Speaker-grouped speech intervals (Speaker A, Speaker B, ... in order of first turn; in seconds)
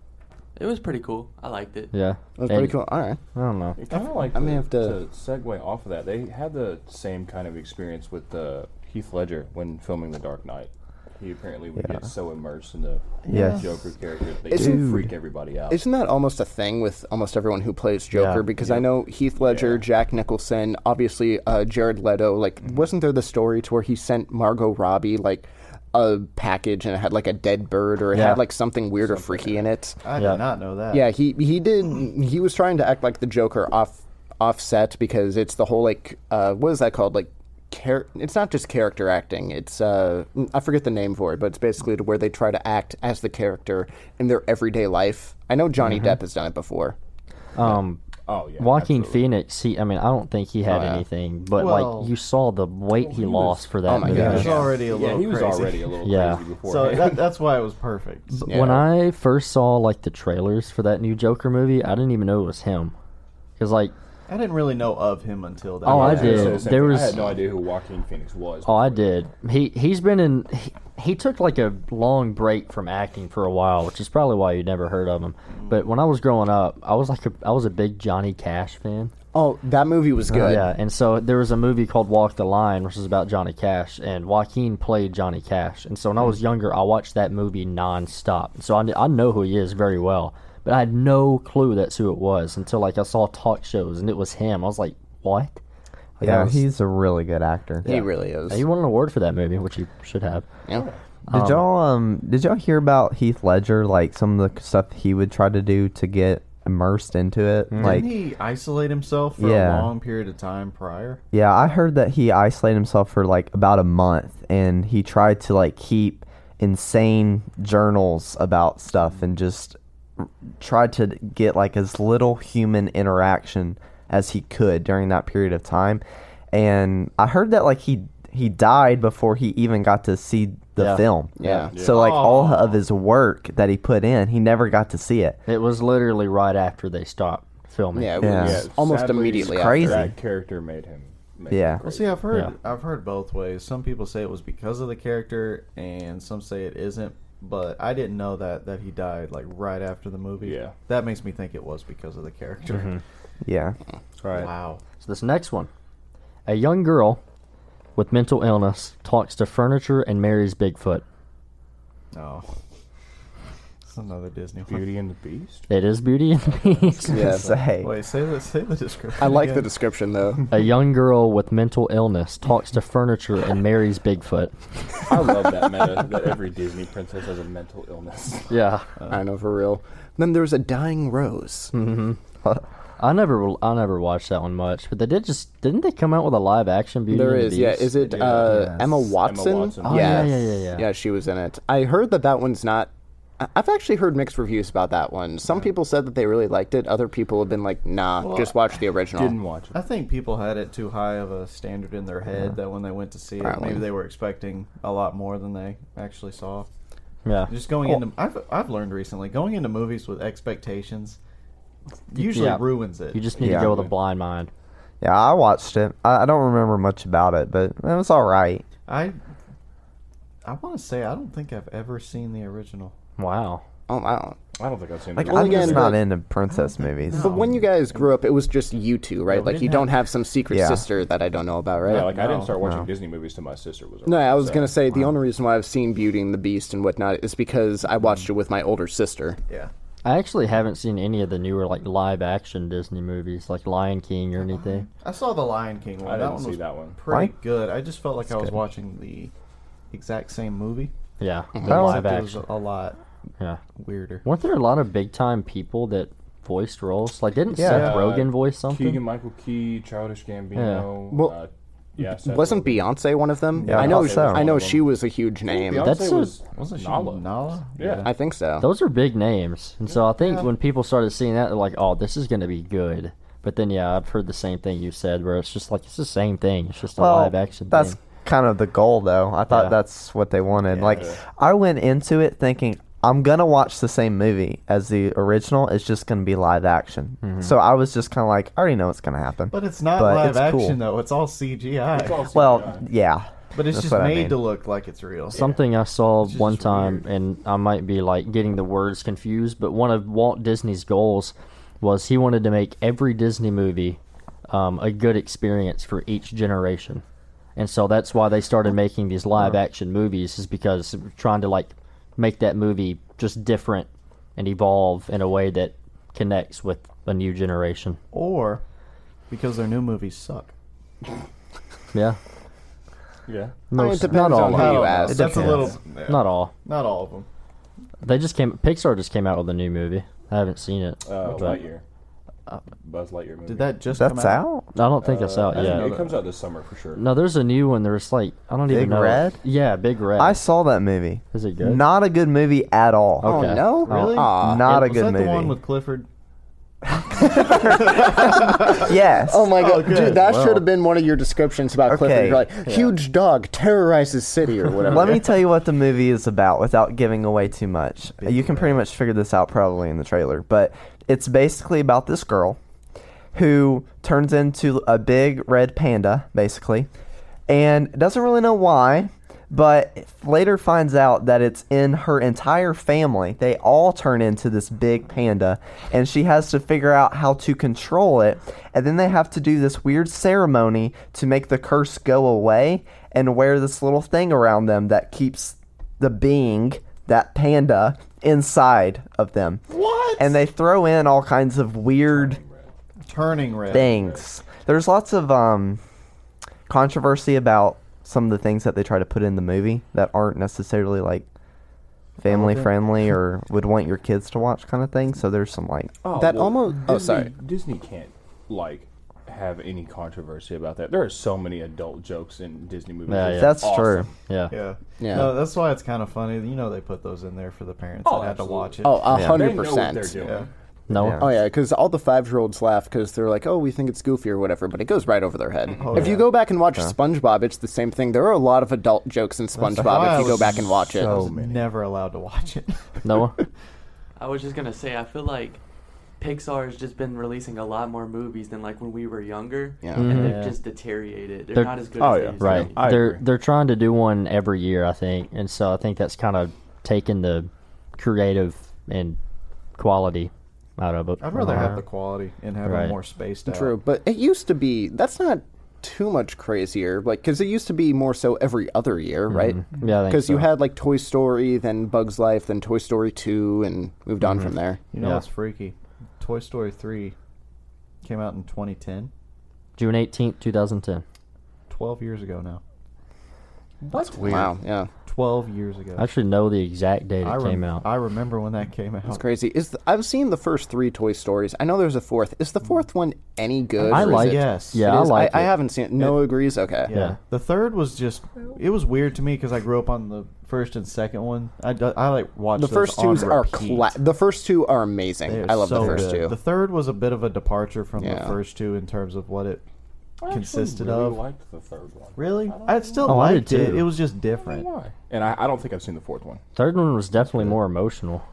Speaker A: 0.6-1.9, 434.2-435.6, 436.2-442.9
Speaker B: 1.9-2.8, 3.3-3.8, 18.1-18.4, 28.1-28.4, 30.2-30.4, 45.9-46.1, 47.5-48.0, 48.6-54.6, 56.0-56.4, 58.4-62.9, 63.6-63.9, 65.8-67.3, 68.7-79.1, 80.3-95.6, 96.2-96.7, 97.8-100.5, 101.3-101.6, 107.7-108.0, 130.8-131.1, 135.5-138.2, 152.7-153.0, 154.2-155.7, 156.4-157.2, 157.9-161.0, 165.7-167.4, 170.5-174.5, 178.5-178.8, 181.7-182.2, 183.0-188.8, 189.8-190.8, 207.2-207.5, 212.1-214.5, 223.2-223.6, 240.0-244.8, 251.2-252.4, 254.2-259.1, 260.5-260.9, 265.8-266.4, 268.6-278.0, 279.5-279.8, 287.2-287.5, 295.3-307.0, 307.6-318.0, 323.7-324.8, 325.4-326.5, 328.0-331.6, 334.7-335.9, 336.9-340.4, 341.3-341.8, 343.2-344.2, 352.6-352.9, 413.1-413.7, 414.3-414.5, 420.9-421.3, 433.0-433.4, 439.9-440.5, 442.4-449.2, 449.8-451.8, 452.6-453.0, 459.3-460.5, 465.0-465.2, 469.8-471.0, 476.0-477.8, 483.8-485.5, 486.9-487.2, 503.0-503.9, 506.6-508.2
Speaker C: 2.4-3.2, 4.3-5.0, 14.5-15.0, 15.7-30.0, 30.9-47.0, 50.7-51.0, 53.9-54.7, 58.5-58.8, 79.3-80.6, 97.8-98.6, 131.4-131.7, 137.9-140.1, 167.1-167.5, 169.2-170.5, 179.1-181.7, 187.1-199.4, 203.4-203.8, 223.9-224.4, 225.2-226.0, 227.1-232.1, 234.1-239.4, 251.6-251.8, 262.0-265.9, 268.0-268.7, 323.7-325.6, 343.2-344.7, 347.7-355.2, 406.1-407.3, 415.0-415.4, 418.8-420.2, 421.2-431.2, 439.8-440.3, 453.5-464.8, 474.1-474.9, 479.1-486.9, 492.6-496.4, 498.0-498.4
Speaker D: 3.8-15.8, 18.6-19.8, 29.0-29.6, 48.3-49.3, 52.9-57.3, 65.8-69.1, 131.7-132.5, 138.2-142.2, 150.4-150.8, 164.7-165.7, 175.1-178.6, 189.2-190.3, 199.1-199.8, 224.6-226.0, 231.8-234.8, 246.0-247.0, 257.6-262.9, 263.7-264.9, 265.5-268.1, 280.8-281.2, 291.9-292.9, 323.3-323.6, 331.0-331.8, 332.8-333.9, 335.0-337.1, 392.1-392.7, 393.7-394.3, 406.0-414.1, 418.0-420.5, 430.0-431.7, 442.0-443.2, 473.8-474.5, 500.2-503.6, 504.4-506.4
Speaker E: 3.9-4.3, 13.2-13.8, 30.0-31.1, 51.5-52.1, 54.1-55.9, 56.6-58.5, 64.3-67.0, 107.8-111.2, 131.8-132.8, 138.9-139.3, 141.8-153.0, 154.3-154.8, 162.1-162.4, 163.8-164.9, 167.8-169.7, 188.0-188.8, 198.2-198.5, 199.7-206.7, 207.5-211.2, 212.1-213.7, 218.9-219.2, 220.4-222.9, 226.6-228.0, 229.3-229.9, 231.9-232.7, 244.4-249.3, 249.9-250.9, 251.6-253.0, 253.8-254.2, 257.7-258.0, 263.6-264.0, 266.5-268.1, 270.2-270.5, 280.6-281.1, 289.5-292.3, 293.5-295.5, 296.2-297.0, 318.1-318.6, 319.3-320.5, 324.1-327.2, 333.4-334.5, 335.5-336.3, 343.8-346.1, 347.4-348.9, 349.5-350.6, 358.2-358.8, 389.7-390.4, 393.0-394.0, 402.2-402.8, 414.5-419.2, 420.1-420.5, 425.8-426.3, 429.5-433.4, 440.1-440.6, 451.2-453.8, 464.9-467.1, 468.0-469.1, 471.7-472.6, 475.0-476.1, 477.2-479.2, 483.8-485.1, 486.0-493.9, 495.2-499.6, 500.3-501.2, 502.1-504.7
Speaker F: 13.3-13.7, 14.5-15.1, 96.2-98.0, 101.3-108.2, 109.4-109.9, 111.3-135.4, 138.2-138.7, 139.4-140.1, 141.5-141.8, 153.4-153.8, 167.2-167.9, 213.4-213.8, 215.0-218.6, 225.2-227.4, 230.5-230.8, 247.1-247.3, 251.7-252.1, 257.5-258.0, 263.7-264.5, 276.9-290.8, 292.3-294.4, 325.1-325.7, 333.9-334.7, 338.7-339.4, 340.2-343.6, 344.3-345.6, 347.4-349.6, 351.9-352.5, 354.9-362.6, 363.3-366.9, 367.5-389.6, 390.2-392.4, 393.7-395.8, 396.7-401.2, 402.2-405.9, 413.3-414.1, 419.1-419.4, 420.9-421.3